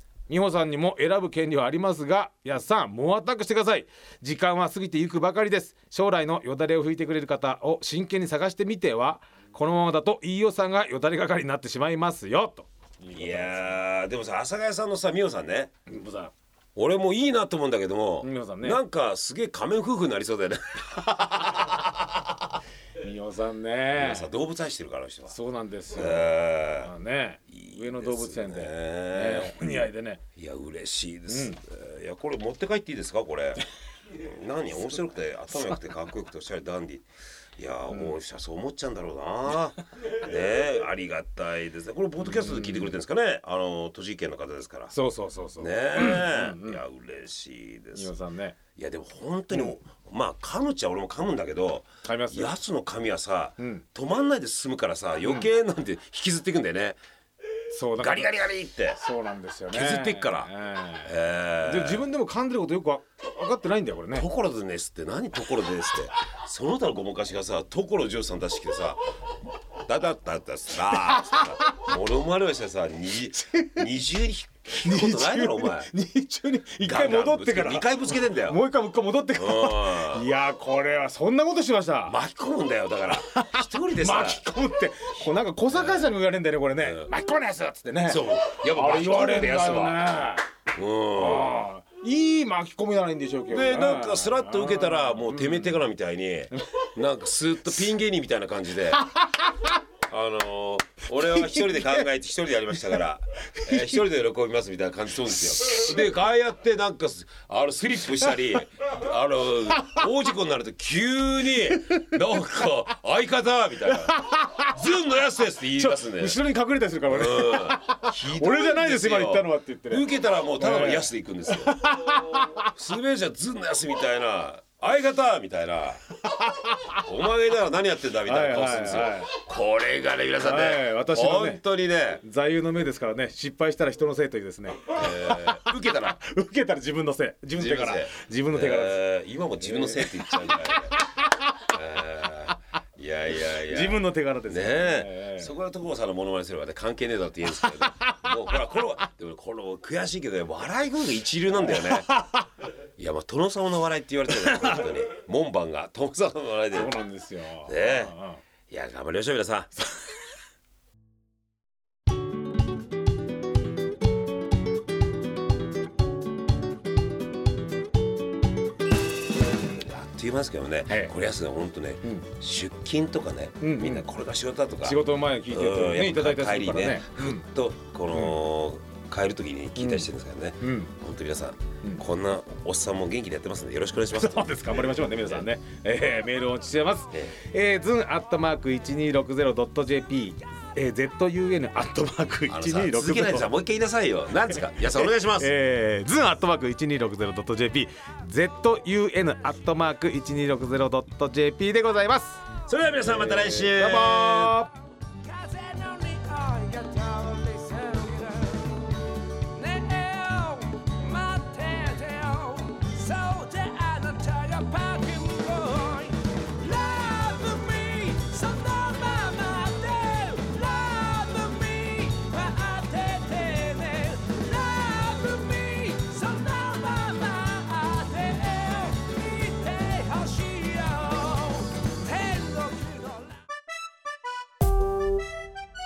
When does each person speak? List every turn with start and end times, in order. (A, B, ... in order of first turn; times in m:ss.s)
0:00.3-0:13.8 A
0:13.1-0:15.7 B
0:15.9-0:16.3 A
0:16.8-0:22.1 B
0:18.2-0:18.8 A
0:23.0-0:24.3 A
0:24.0-0:25.3 B
0:25.3-0:30.2 A
0:25.9-0:26.9 B
0:27.5-0:37.1 B
0:31.3-0:31.6 A
0:37.6-0:44.9 B
0:42.3-0:42.9 A
0:44.9-0:46.8 A
0:45.6-0:48.1 B
0:48.0-0:48.6 A
0:48.8-0:57.0 B
0:52.0-0:52.5 A
0:53.6-0:53.8 A
0:55.2-0:55.5 A
0:57.7-0:58.3 A
0:58.0-0:59.0 B
0:58.9-1:04.3 A
0:59.7-1:00.5 B
1:01.0-1:02.1 B
1:04.1-1:09.0 B
1:09.8-1:15.9 B
1:11.0-1:11.8 A
1:13.4-1:13.9 A
1:14.8-1:22.2 A
1:16.8-1:18.6 B
1:19.4-1:20.2 B
1:22.1-1:24.4 B
1:23.1-1:30.4 A
1:25.7-1:26.1 B
1:26.8-1:27.1 B
1:28.1-1:30.1 B
1:30.8-1:31.7 B
1:31.2-1:35.8 A
1:33.5-1:39.0 B
1:39.0-1:39.7 A
1:40.1-1:56.4 B
1:41.3-1:42.0 A
1:43.7-1:43.9 A
1:45.7-1:46.0 A
1:53.9-1:54.8 A
1:55.8-2:00.0 A
1:57.1-2:01.8 B
2:00.6-2:02.7 A
2:02.8-2:06.0 B
2:06.2-2:07.0 A
2:07.0-2:12.2 B
2:08.3-2:09.3 A
2:10.4-2:11.6 A
2:12.2-2:19.0 A
2:14.9-2:16.2 B
2:17.5-2:21.0 B
2:19.6-2:21.2 A
2:21.6-2:32.1 B
2:23.7-2:25.5 A
2:27.6-2:28.2 A
2:31.7-2:32.5 A
2:33.0-2:37.0 B
2:34.3-2:34.8 A
2:36.7-2:38.4 A
2:37.7-2:38.1 B
2:38.7-2:39.7 B
2:49.6-3:05.4 B
2:50.9-2:51.1 A
2:53.6-2:54.0 A
2:54.8-2:57.4 A
2:59.8-3:00.1 A
3:00.6-3:00.9 A
3:04.1-3:13.5 A
3:12.5-3:15.5 B
3:14.9-3:24.7 A
3:22.7-3:24.6 B
3:25.4-3:28.1 C
3:25.6-3:28.6 A
3:29.6-3:36.0 A
3:31.1-3:40.7 C
3:36.8-3:45.1 A
3:41.4-3:53.3 C
3:46.6-3:49.0 A